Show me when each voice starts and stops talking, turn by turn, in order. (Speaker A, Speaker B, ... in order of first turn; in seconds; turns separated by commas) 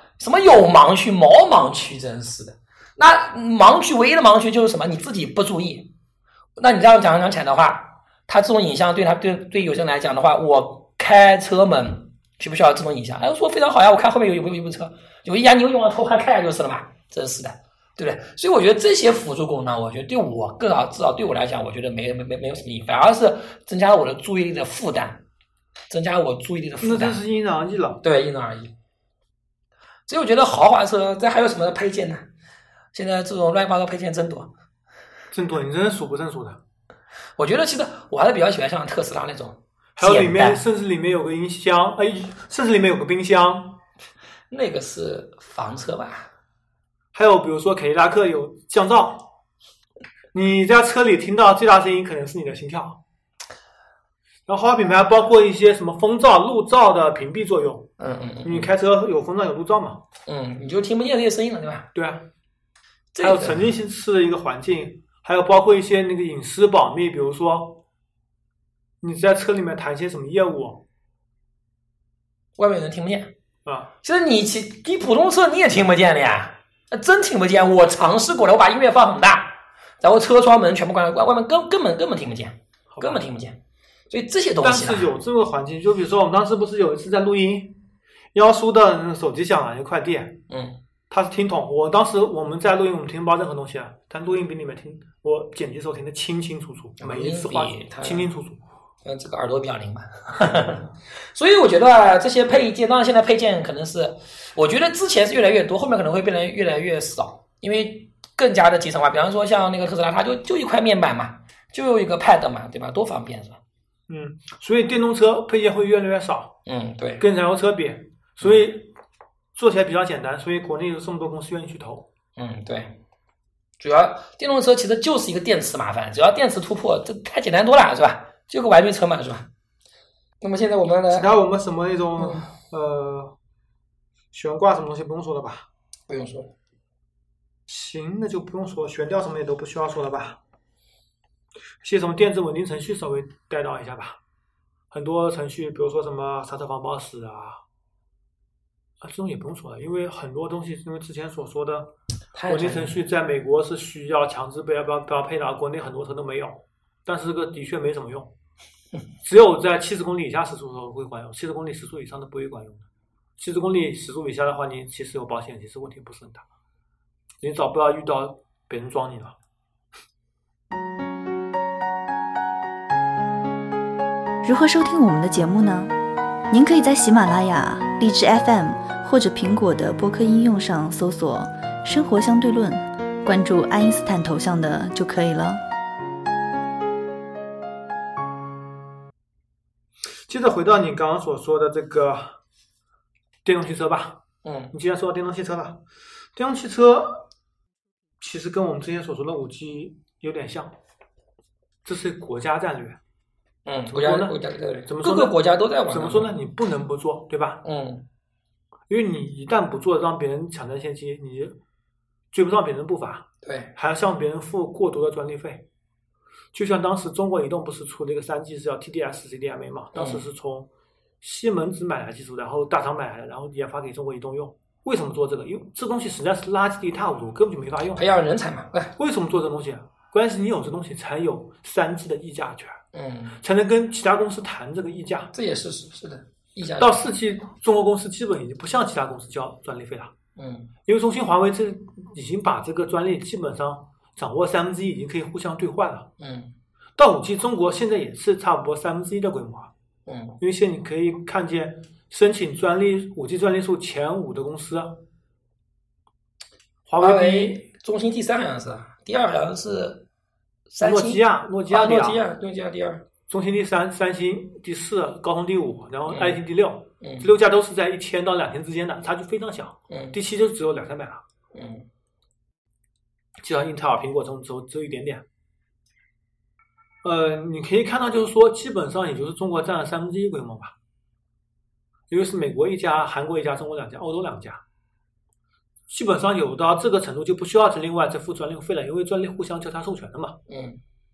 Speaker A: 0.2-5.9, Speaker A: 6.6-25.2, Speaker A: 25.9-27.2, Speaker B: 26.8-28.0, Speaker A: 28.0-28.7, Speaker A: 30.1-32.3, Speaker A: 32.9-34.5, Speaker B: 35.3-36.6, Speaker A: 37.4-40.6, Speaker B: 40.0-43.8, Speaker A: 44.5-46.3, Speaker B: 47.1-49.3, Speaker B: 50.3-53.0, Speaker B: 54.5-57.9, Speaker A: 58.0-58.7, Speaker B: 58.4-60.0, Speaker A: 60.2-61.9, Speaker B: 61.9-62.3, Speaker A: 63.1-63.7, Speaker B: 63.2-67.8, Speaker B: 69.0-70.8, Speaker A: 72.6-73.3, Speaker A: 74.0-83.6, Speaker B: 82.9-83.2, Speaker A: 84.1-85.1, Speaker B: 84.6-87.8, Speaker B: 88.3-90.4, Speaker A: 90.5-90.8, Speaker B: 91.1-98.6, Speaker A: 97.0-98.3, Speaker A: 99.0-113.6, Speaker B: 114.1-116.6, Speaker A: 116.7-117.2, Speaker B: 117.2-118.9, Speaker B: 119.5-122.1, Speaker A: 122.3-123.0, Speaker A: 123.8-129.5, Speaker A: 130.4-131.3, Speaker B: 131.1-133.3, Speaker A: 132.2-132.5, Speaker B: 134.3-135.7, Speaker A: 136.1-136.5, Speaker B: 137.7-140.4, Speaker B: 141.8-144.2, Speaker B: 144.9-147.6, Speaker B: 149.0-151.9, Speaker A: 152.3-153.0, Speaker B: 152.5-158.3, Speaker B: 159.2-162.8, Speaker B: 163.4-166.4, Speaker B: 167.4-169.3, Speaker C: 174.4-175.9, Speaker C: 176.5-185.6, Speaker B: 190.3-192.4, Speaker B: 193.4-195.8, Speaker A: 194.4-194.7, Speaker B: 196.3-197.3, Speaker B: 198.2-200.8, Speaker B: 201.8-203.0, Speaker A: 203.7-206.3, Speaker B: 203.9-207.6, Speaker A: 207.6-208.1, Speaker B: 208.9-211.6, Speaker B: 212.3-215.7, Speaker A: 213.4-213.7, Speaker B: 216.5-220.7, Speaker A: 219.9-220.2, Speaker B: 221.2-228.1, Speaker A: 227.9-228.9, Speaker B: 229.0-232.8, Speaker A: 232.9-233.4, Speaker B: 233.4-235.3, Speaker A: 235.3-237.0, Speaker B: 236.8-240.1, Speaker A: 240.3-240.7, Speaker B: 240.8-246.1, Speaker A: 246.2-246.5, Speaker B: 247.0-249.7, Speaker A: 250.1-250.4, Speaker B: 250.4-255.0, Speaker B: 256.9-257.6, Speaker A: 257.0-260.1, Speaker A: 260.7-263.0, Speaker B: 260.8-262.2, Speaker B: 263.3-271.2, Speaker A: 266.1-266.4, Speaker A: 267.0-267.3, Speaker A: 269.9-270.1, Speaker A: 271.5-271.9, Speaker B: 273.4-275.2, Speaker B: 277.0-280.7, Speaker B: 282.1-284.6, Speaker B: 285.9-290.4, Speaker A: 290.5-290.8